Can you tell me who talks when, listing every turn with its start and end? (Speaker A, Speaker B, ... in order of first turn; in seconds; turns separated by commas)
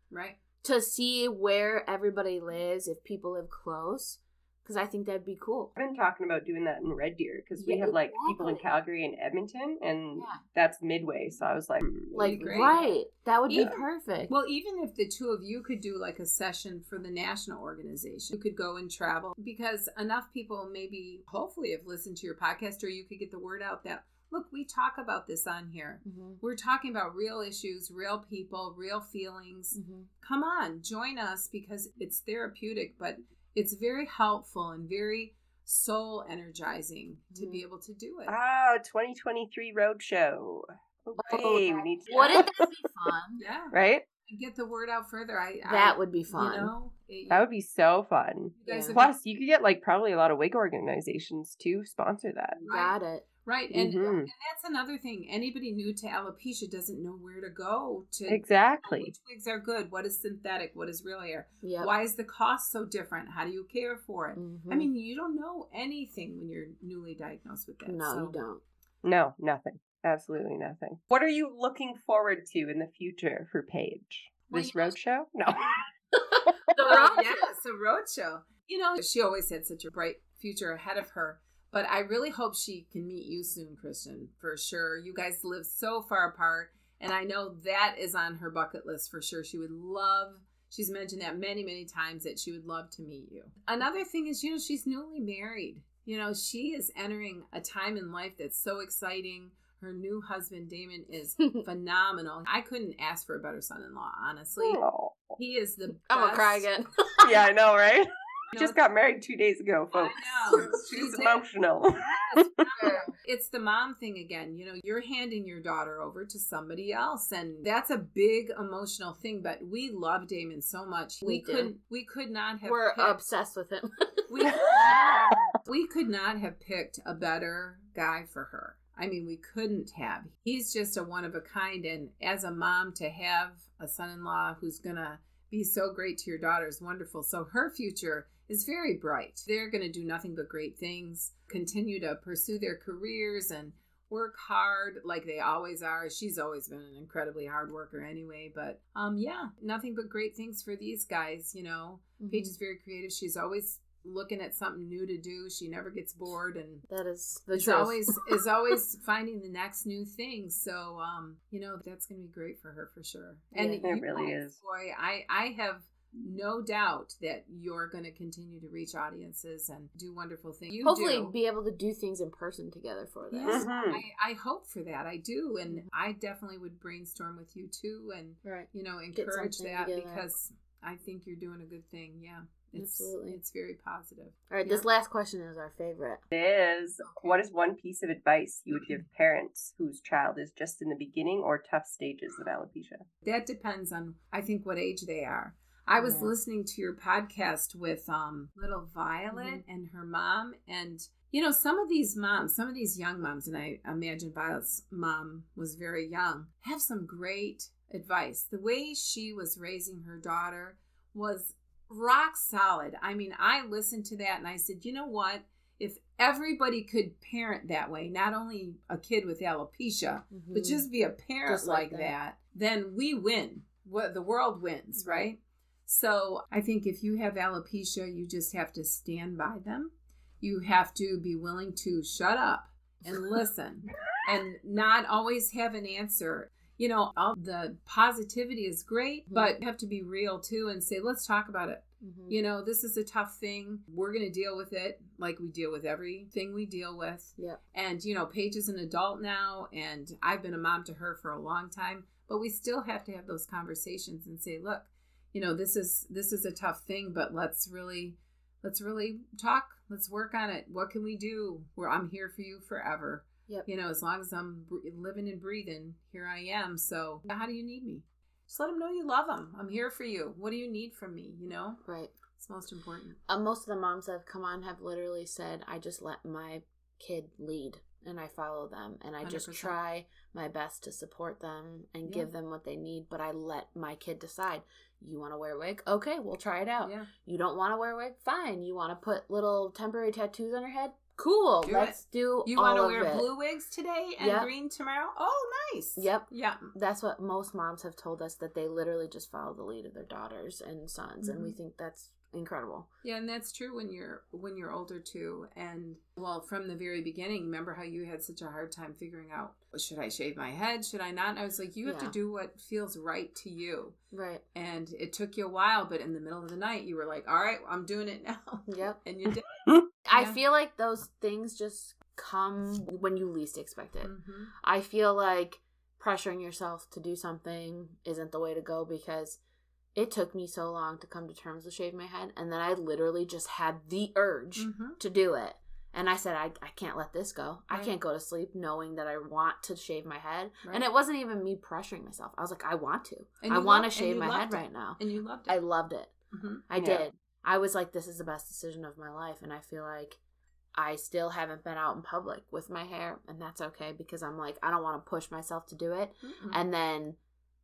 Speaker A: 0.1-0.4, Speaker B: 0.6-5.7, Speaker C: 5.8-12.8, Speaker B: 7.6-8.6, Speaker B: 10.2-10.4, Speaker B: 12.1-14.3, Speaker A: 12.2-12.9, Speaker A: 13.5-13.7, Speaker A: 14.3-38.4, Speaker B: 26.0-26.4, Speaker B: 29.7-30.1, Speaker B: 37.3-37.6, Speaker C: 38.3-42.6, Speaker B: 41.2-43.4, Speaker A: 41.3-42.5, Speaker A: 43.4-43.7, Speaker C: 43.7-44.0, Speaker A: 44.2-47.4, Speaker B: 45.7-46.7, Speaker C: 47.3-52.6, Speaker A: 48.5-49.1, Speaker B: 48.7-49.0, Speaker A: 52.6-68.4, Speaker B: 52.7-53.2, Speaker C: 53.7-54.3, Speaker C: 58.3-59.1, Speaker B: 61.6-61.9, Speaker B: 64.3-64.9, Speaker B: 67.8-68.6, Speaker C: 69.0-75.8, Speaker A: 74.5-75.0, Speaker B: 76.7-77.5, Speaker C: 76.7-77.0, Speaker A: 76.8-104.8, Speaker C: 104.6-105.3, Speaker A: 105.3-106.7, Speaker B: 106.1-107.3, Speaker C: 107.2-112.6, Speaker A: 109.9-111.4, Speaker A: 112.0-123.2, Speaker B: 112.8-113.1, Speaker B: 121.2-121.7, Speaker B: 122.6-124.3, Speaker A: 124.3-124.9, Speaker C: 124.5-125.4, Speaker A: 125.6-156.8, Speaker B: 152.2-152.5, Speaker B: 156.9-158.2, Speaker A: 157.5-171.3, Speaker B: 163.5-163.8, Speaker C: 163.8-164.6, Speaker B: 170.8-173.7, Speaker A: 173.3-184.8, Speaker C: 173.4-174.0, Speaker B: 178.4-180.2, Speaker B: 182.7-183.4, Speaker B: 184.5-186.2, Speaker C: 186.3-193.0, Speaker A: 187.0-187.3, Speaker A: 193.2-271.8, Speaker B: 196.0-196.3, Speaker B: 199.3-199.6, Speaker B: 220.3-220.9, Speaker B: 221.4-222.1, Speaker B: 224.9-225.3, Speaker B: 242.0-242.4, Speaker B: 271.8-272.1, Speaker A: 272.3-273.2, Speaker B: 273.3-293.3, Speaker A: 279.2-279.7, Speaker A: 282.0-282.3, Speaker A: 286.8-287.1, Speaker A: 291.6-296.7, Speaker B: 294.2-294.5, Speaker B: 295.9-302.9, Speaker A: 301.2-301.5, Speaker A: 303.0-313.9, Speaker B: 311.8-312.1, Speaker B: 314.1-314.4, Speaker A: 314.5-320.4, Speaker B: 318.7-319.0, Speaker B: 320.1-329.4, Speaker A: 324.0-324.5, Speaker B: 329.9-346.1, Speaker A: 334.6-335.0, Speaker A: 343.4-345.6, Speaker A: 346.3-347.0, Speaker B: 346.7-350.2, Speaker B: 350.7-357.2, Speaker A: 356.2-356.6